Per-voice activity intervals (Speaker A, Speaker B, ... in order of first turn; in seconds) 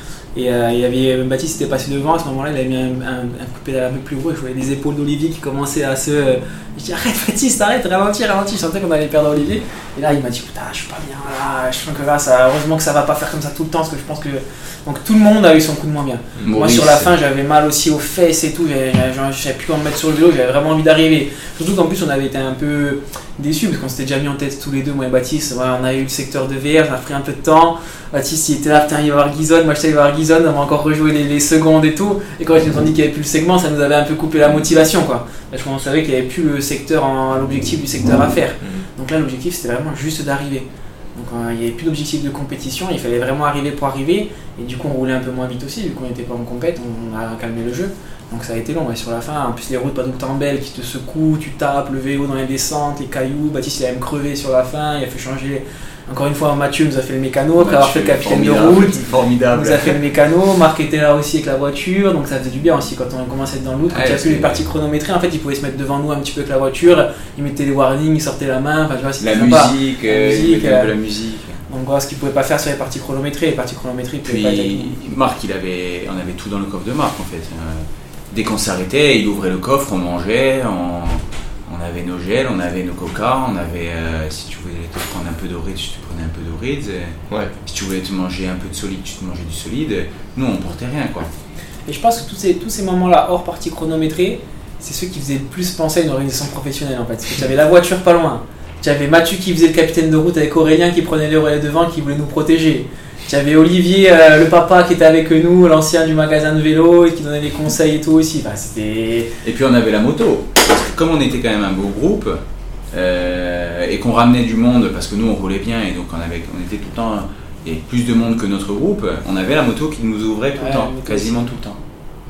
Speaker A: 0.3-70.9, 71.7-75.0, 91.9-109.3, 120.6-121.5
Speaker B: 16.4-17.1, 57.6-60.0, 63.9-64.6, 69.2-71.6, 74.2-91.3, 109.4-112.4, 112.9-121.8